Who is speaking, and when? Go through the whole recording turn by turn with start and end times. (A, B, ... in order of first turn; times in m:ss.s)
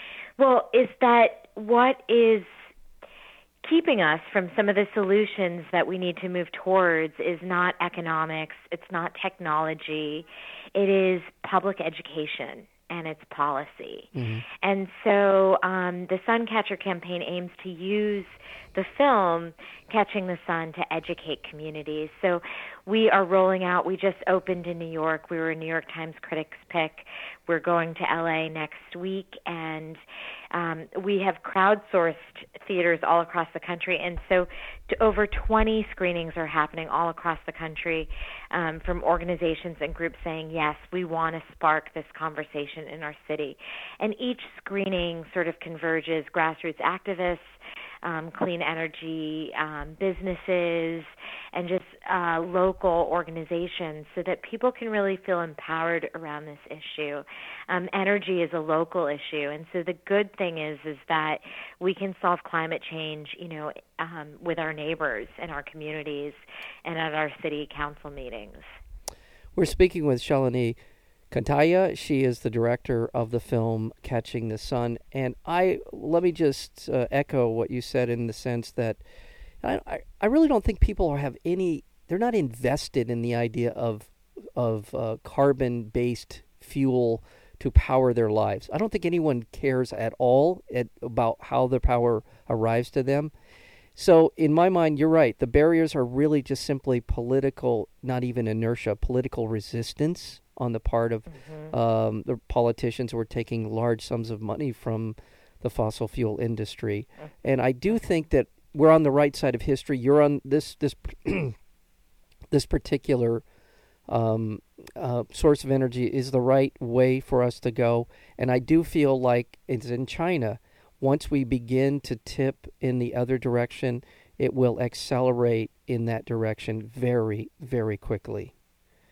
0:00.4-0:02.5 A
0:03.6-0:14.1 A
0:14.2-0:14.4 B
0:14.6-1:08.6 A
1:09.6-1:10.8 B
1:11.3-1:19.0 B
1:19.6-1:33.3 B
1:34.0-1:51.6 B
1:41.4-1:41.7 A
1:52.5-1:53.4 B
1:54.1-2:08.5 B